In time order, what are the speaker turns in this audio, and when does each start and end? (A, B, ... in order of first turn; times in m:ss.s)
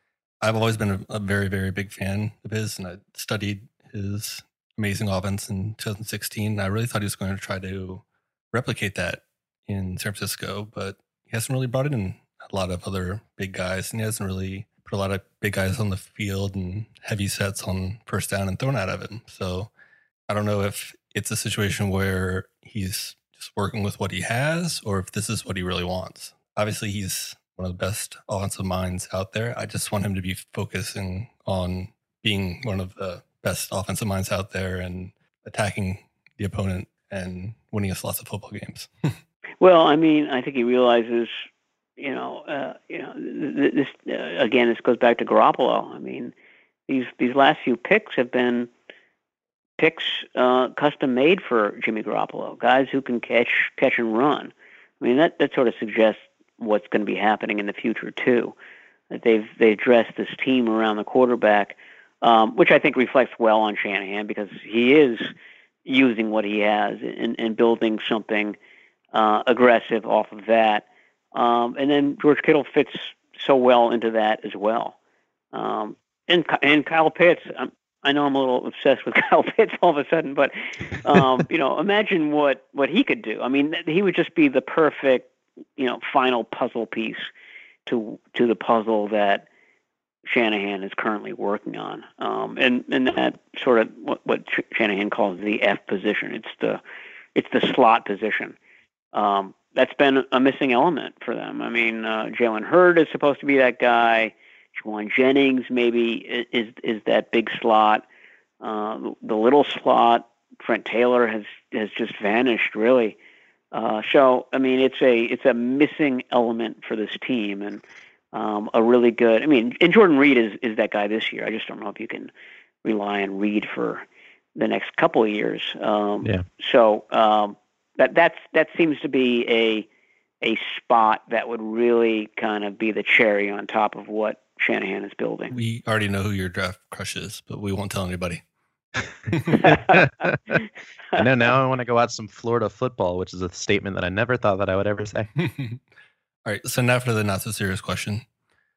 0:00.4-0:19.7 A
0:20.3-0:38.9 A
0:39.6-0:41.4 B
0:42.0-0:46.3 B
0:46.9-0:48.7 B
0:49.8-0:58.6 B
0:59.1-1:05.3 B
1:05.8-1:08.6 B
1:09.1-1:14.9 B
1:15.5-1:27.3 B
1:27.8-1:29.4 B
1:30.2-1:36.8 B
1:37.3-1:38.6 B
1:39.1-1:48.0 B
1:48.6-1:53.2 B
1:53.7-1:57.8 B
1:58.3-2:02.3 B
2:02.8-2:04.0 B
2:04.6-2:09.8 B
2:10.4-2:15.5 B
2:15.5-2:18.4 A
2:19.3-2:19.7 A
2:19.4-2:20.6 C
2:19.6-2:20.0 B
2:21.1-2:25.3 C
2:25.4-2:25.8 A
2:26.4-2:28.2 A